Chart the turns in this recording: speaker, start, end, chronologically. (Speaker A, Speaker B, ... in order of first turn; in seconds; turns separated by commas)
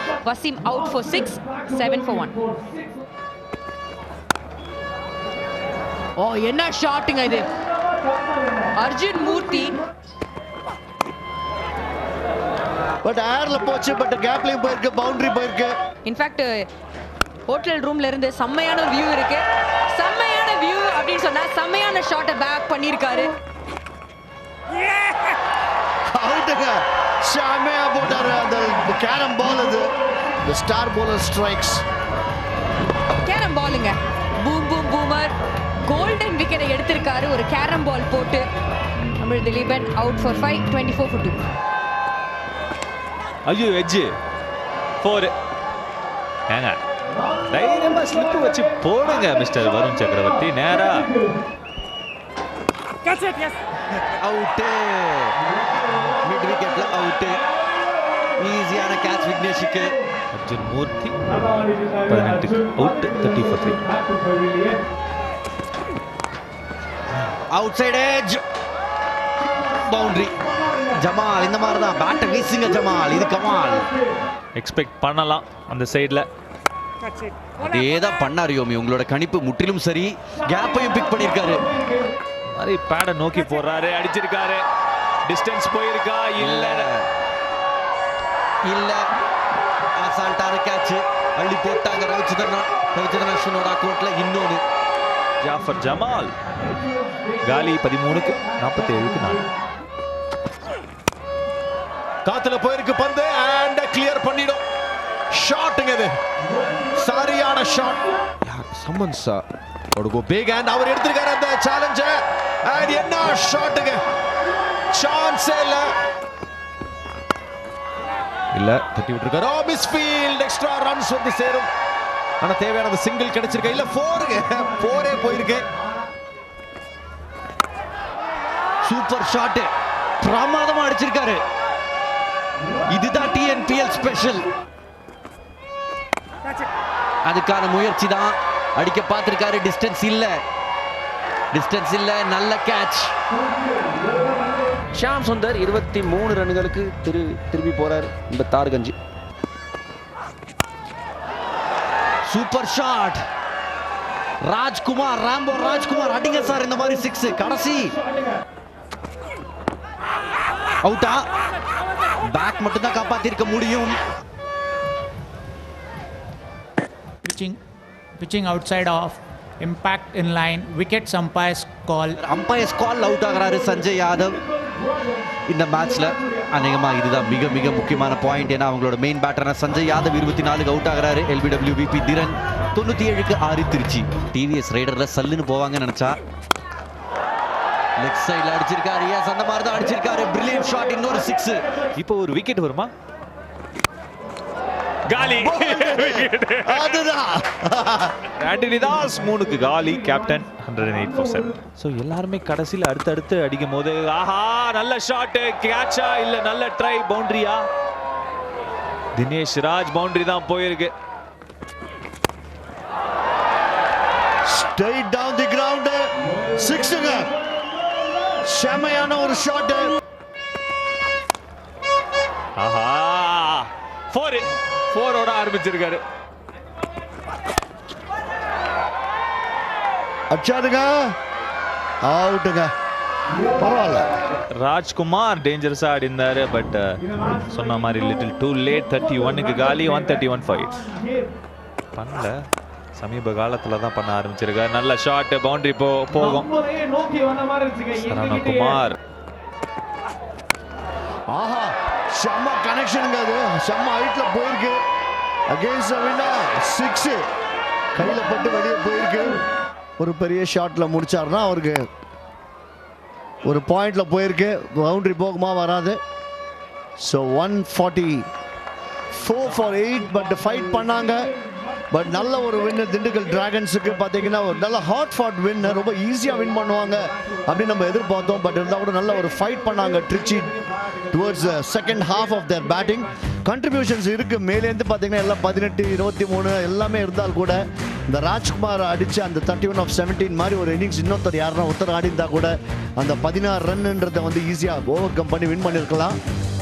Speaker A: 0.2-2.4, Speaker A: 6.2-7.6, Speaker A: 8.8-9.8, Speaker B: 13.0-15.7, Speaker A: 16.0-16.7, Speaker A: 17.5-23.3, Speaker B: 26.1-29.9, Speaker B: 30.4-31.8, Speaker A: 33.2-35.3, Speaker A: 35.8-38.4, Speaker A: 39.2-41.4, Speaker C: 43.5-44.1, Speaker C: 45.0-45.3, Speaker C: 46.5-46.8, Speaker C: 47.5-51.1, Speaker D: 54.0-55.4, Speaker D: 56.2-57.4, Speaker D: 58.4-60.0, Speaker C: 60.3-61.2, Speaker C: 62.1-63.8, Speaker D: 67.5-68.4, Speaker D: 69.7-70.3, Speaker D: 70.9-73.9, Speaker C: 74.5-76.2, Speaker D: 77.6-81.6, Speaker C: 82.5-84.6, Speaker C: 85.3-86.9, Speaker D: 86.4-87.1, Speaker D: 88.7-89.1, Speaker D: 90.0-94.6, Speaker C: 95.4-96.3, Speaker C: 97.4-99.4, Speaker E: 102.2-104.6, Speaker E: 105.3-106.1, Speaker E: 106.9-109.4, Speaker E: 109.9-114.0, Speaker E: 114.9-115.9, Speaker E: 118.5-121.7, Speaker E: 122.4-125.7, Speaker D: 128.8-129.7, Speaker D: 130.2-131.4, Speaker D: 132.9-134.4, Speaker D: 137.3-140.4, Speaker D: 141.5-143.1, Speaker F: 145.0-148.9, Speaker D: 152.3-153.2, Speaker D: 154.5-157.9, Speaker D: 160.8-161.2, Speaker D: 162.3-163.9, Speaker G: 167.2-167.6, Speaker G: 168.2-172.2, Speaker D: 172.2-174.4, Speaker D: 175.5-186.1, Speaker D: 188.0-191.6, Speaker C: 191.9-192.9, Speaker C: 195.1-197.0, Speaker B: 195.4-198.1, Speaker C: 198.4-207.6, Speaker C: 209.2-210.9, Speaker B: 214.5-217.3, Speaker B: 218.4-219.9, Speaker C: 222.6-226.0, Speaker B: 230.3-231.1, Speaker B: 232.1-232.7, Speaker B: 233.6-234.1, Speaker C: 234.5-240.8, Speaker C: 241.9-242.4, Speaker C: 242.9-246.5, Speaker C: 247.9-249.0, Speaker B: 251.3-254.8, Speaker B: 255.5-257.2, Speaker B: 257.9-259.4, Speaker B: 260.0-261.8, Speaker B: 263.4-266.0, Speaker B: 267.0-268.2, Speaker B: 269.1-271.2, Speaker B: 271.9-280.5, Speaker B: 281.1-287.6, Speaker B: 288.1-296.1